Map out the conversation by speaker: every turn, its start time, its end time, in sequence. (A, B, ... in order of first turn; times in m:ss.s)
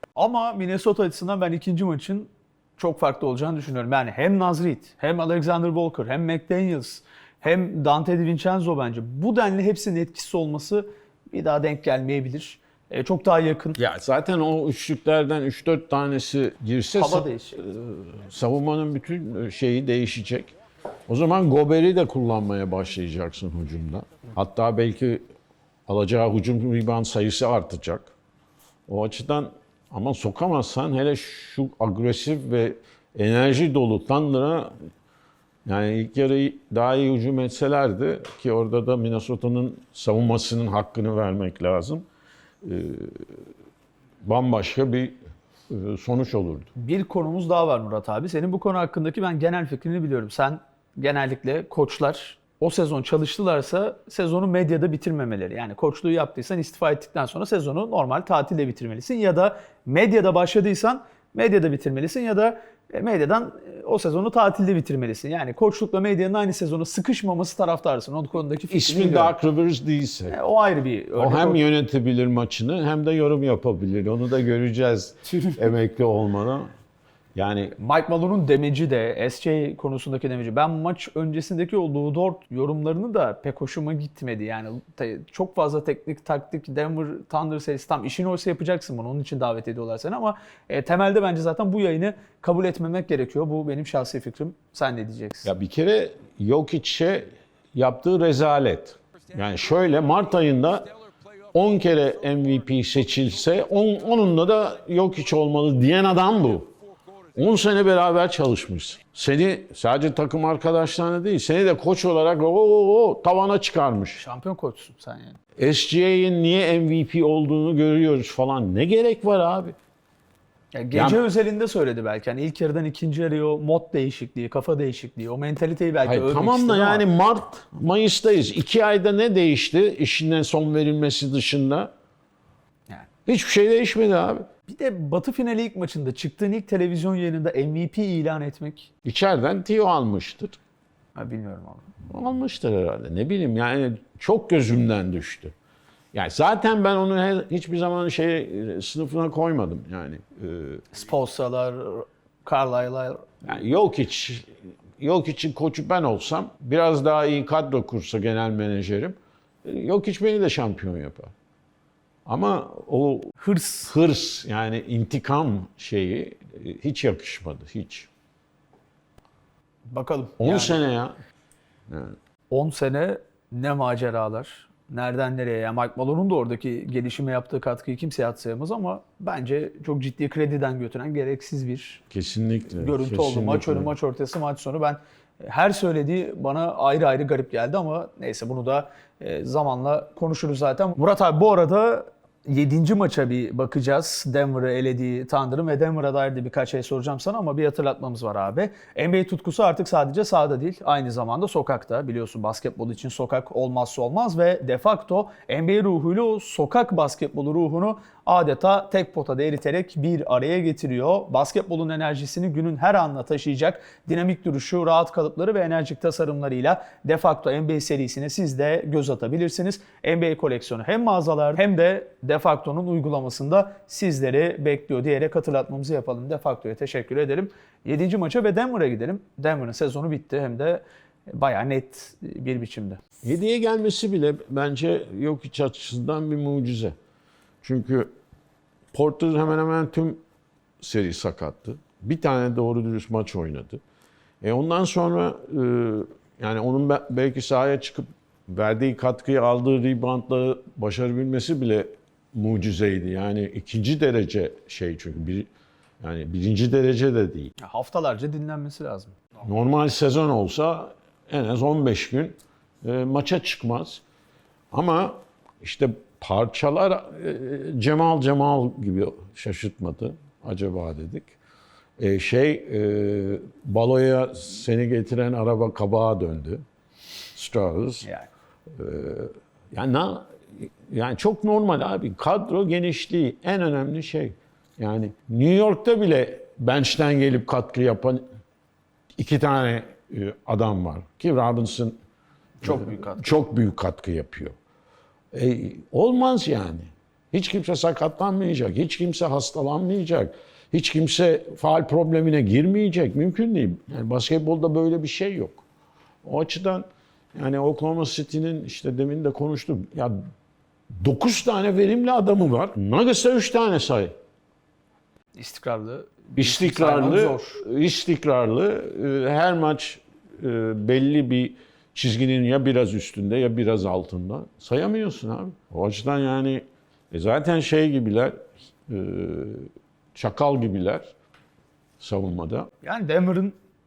0:00.2-0:13.8 A
0:13.8-0:20.5 B
0:17.0-0:17.6 A
0:21.1-0:25.2 B
0:25.9-0:28.1 B
0:28.9-0:34.7 B
0:35.6-0:42.1 B
0:42.6-0:43.3 B
0:44.2-0:45.2 B
0:45.7-0:46.7 B
0:46.8-1:09.3 A
1:08.7-1:10.4 B
1:10.3-1:11.6 A
1:11.2-1:16.7 B
1:17.4-1:17.8 B
1:17.8-1:35.5 A
1:35.4-1:40.9 B
1:41.5-1:46.7 B
1:47.4-1:54.2 B
1:54.2-1:55.4 A
1:55.6-1:59.8 B
2:00.7-2:07.1 A
2:00.9-2:01.2 B
2:06.0-2:11.9 B
2:13.3-2:14.5 B
2:14.7-2:18.9 A
2:19.0-2:20.6 B
2:21.2-2:21.9 A
2:22.1-2:25.6 B
2:26.1-2:30.9 B
2:30.9-2:33.3 A
2:33.4-2:41.3 B
2:42.3-2:43.4 B
2:43.4-2:43.9 A
2:43.9-2:48.1 B
2:49.9-2:50.8 A
2:50.4-2:51.2 B
2:51.9-2:52.2 B
2:52.5-3:02.0 A
3:02.1-3:03.9 B
3:02.8-3:53.0 A
3:53.2-3:57.0 B
3:57.6-3:58.1 B
3:58.9-4:00.2 B
4:00.8-4:03.8 B
4:04.4-4:15.5 B
4:16.0-4:17.5 B
4:17.6-4:19.2 A
4:19.4-4:24.0 B
4:24.7-4:31.3 B
4:32.0-4:36.6 B
4:37.4-4:38.1 B
4:38.0-4:38.3 A
4:38.7-4:48.2 B
4:49.2-4:52.0 B
4:52.6-4:53.4 A
4:52.6-4:54.6 B
4:55.3-5:05.6 B
5:06.2-5:10.2 B
5:11.0-5:14.1 B
5:15.4-5:17.6 A
5:16.4-5:31.1 B
5:32.0-5:32.7 B
5:32.8-5:33.6 A